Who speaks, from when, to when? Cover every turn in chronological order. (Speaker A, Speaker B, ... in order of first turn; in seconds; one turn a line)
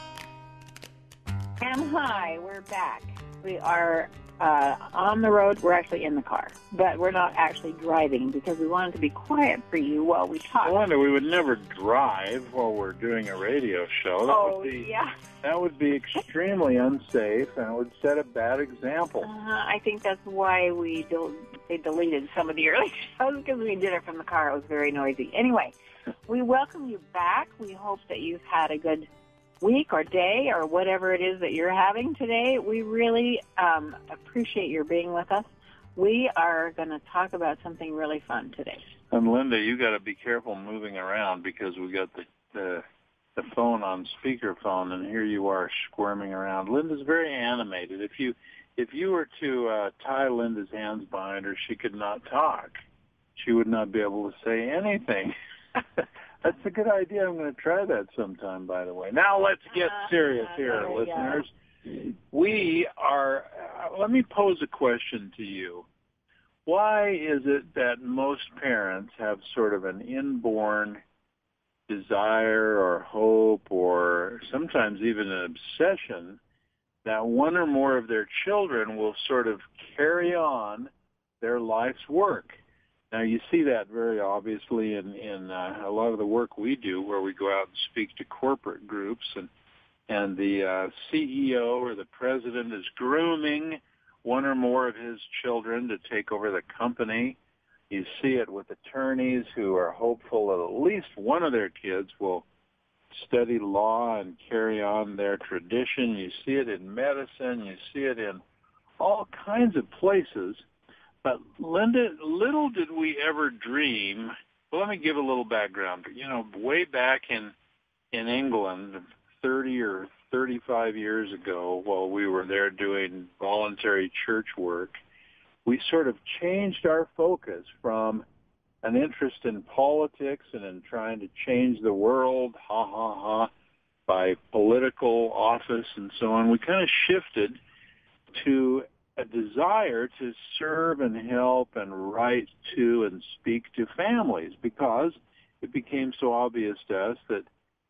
Speaker A: 1.6-10.8
Speaker B: 10.6-14.9
Speaker A: 14.3-15.1
Speaker B: 15.4-19.3
Speaker A: 19.2-25.7
Speaker A: 26.3-29.1
Speaker A: 29.6-38.8
Speaker B: 39.1-42.8
Speaker B: 43.4-52.8
Speaker B: 53.4-65.9
Speaker A: 59.8-61.4
Speaker B: 66.7-71.0
Speaker B: 71.9-76.4
Speaker B: 77.0-82.6
Speaker B: 83.1-89.5
Speaker B: 90.1-97.4
Speaker B: 97.9-102.5
Speaker B: 103.1-108.4
Speaker B: 109.0-110.6
Speaker B: 111.2-117.5
Speaker B: 118.1-125.0
Speaker B: 125.7-128.2
Speaker B: 128.8-133.5
Speaker B: 134.1-137.6
Speaker B: 138.3-147.5